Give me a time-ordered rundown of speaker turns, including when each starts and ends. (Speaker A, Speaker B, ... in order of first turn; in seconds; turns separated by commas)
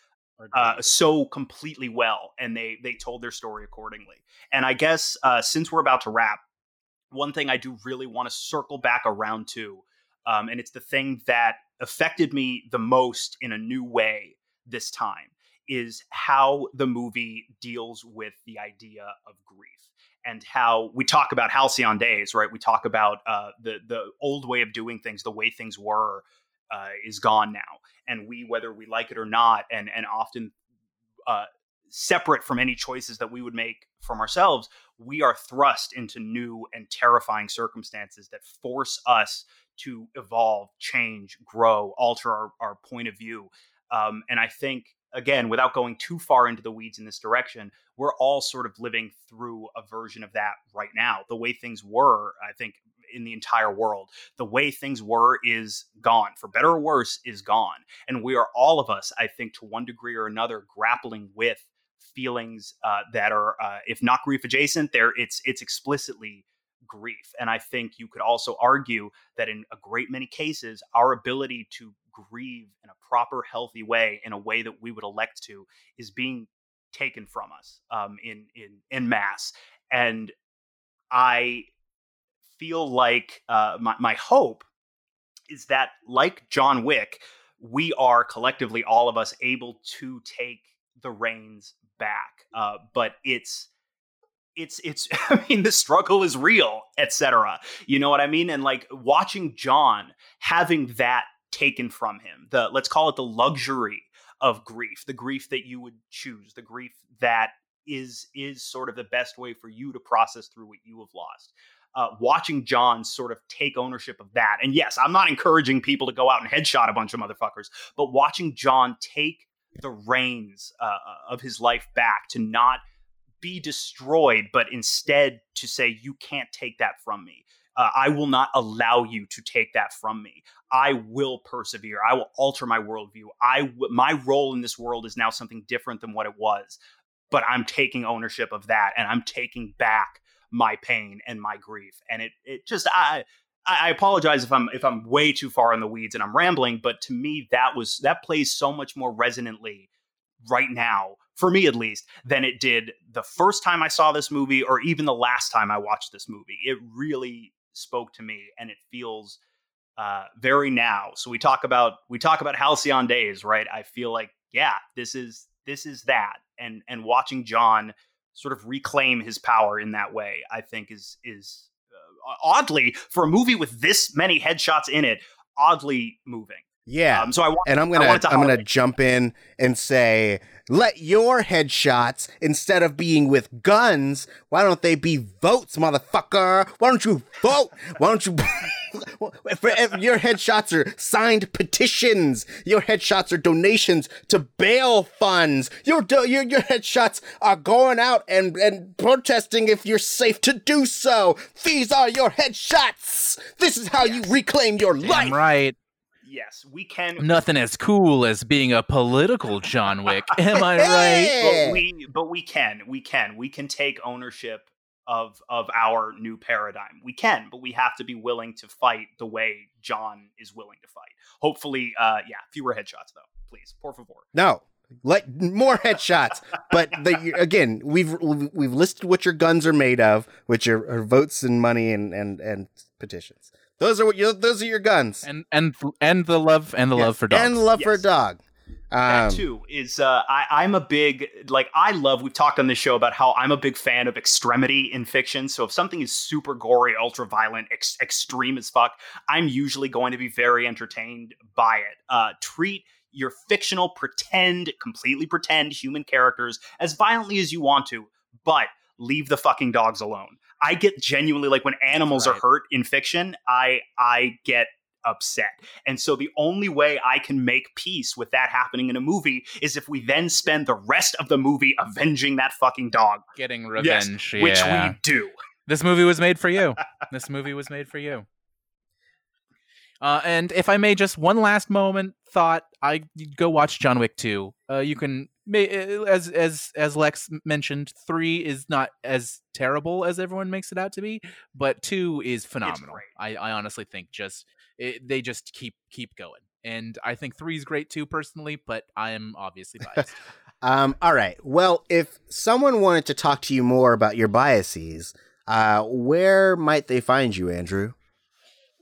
Speaker A: 0.4-0.9, Speaker B: 0.5-6.4, Speaker B: 7.1-30.5, Speaker B: 31.3-80.3, Speaker B: 81.1-81.7, Speaker B: 82.6-84.6, Speaker B: 85.5-93.7, Speaker B: 94.5-122.8, Speaker B: 123.4-136.8, Speaker B: 137.3-149.9, Speaker B: 150.4-159.4, Speaker B: 160.0-178.6, Speaker C: 176.8-205.4, Speaker B: 204.0-204.3, Speaker A: 205.0-205.8, Speaker B: 206.2-207.2, Speaker A: 207.2-211.4, Speaker C: 210.6-211.8, Speaker B: 211.4-224.3, Speaker C: 224.3-235.2, Speaker A: 235.2-237.6, Speaker C: 236.9-239.5, Speaker B: 237.7-238.0, Speaker B: 239.1-273.2, Speaker A: 261.9-262.4, Speaker A: 273.4-275.0, Speaker B: 273.8-275.4, Speaker A: 275.7-278.2, Speaker A: 280.0-300.2, Speaker B: 292.6-293.1, Speaker C: 300.6-307.9